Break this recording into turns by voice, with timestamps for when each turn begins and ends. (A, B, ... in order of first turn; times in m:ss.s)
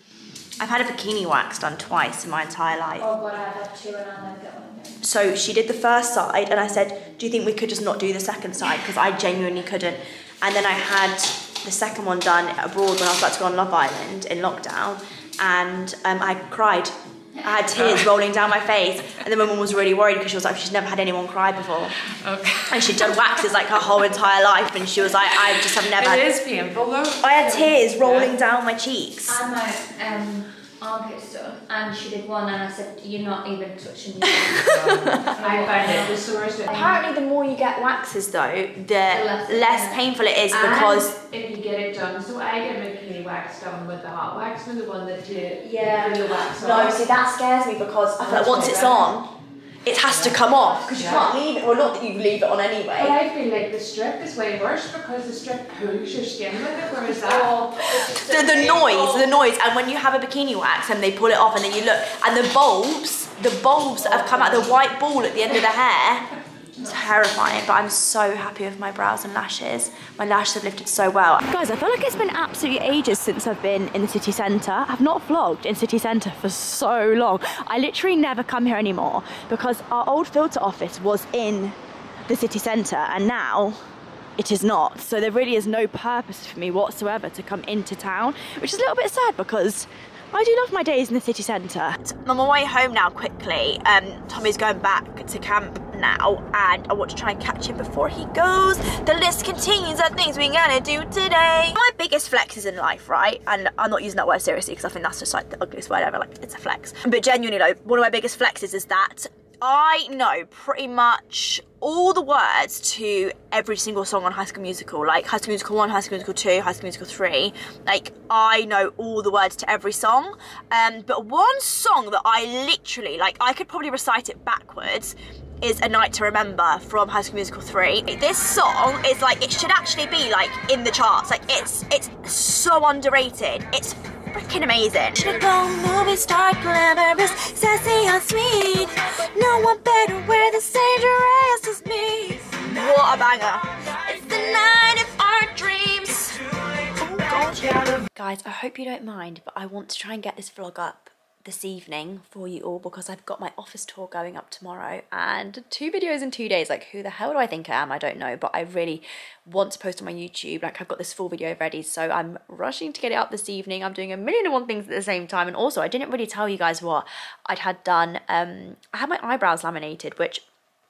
0:00.6-0:03.1 A
0:03.0-0:05.0 B
0:05.0-0:22.0 A
0:17.8-0:18.0 C
0:22.1-0:23.2 C
0:22.6-0:26.3 A
0:26.0-0:28.3 C
0:27.2-0:29.4 A
0:29.3-0:37.0 B
0:34.5-0:35.3 A
0:34.7-0:36.7 C
0:36.7-0:41.2 A
0:39.1-0:40.0 B
0:40.5-0:47.0 C
0:45.6-0:49.3 A
0:48.2-0:49.1 C
0:49.8-0:53.2 A
0:50.0-0:51.3 C
0:53.0-0:57.6 C
0:57.3-0:59.2 B
0:57.8-1:23.8 A
1:24.4-2:26.4 A
2:27.0-2:50.4 A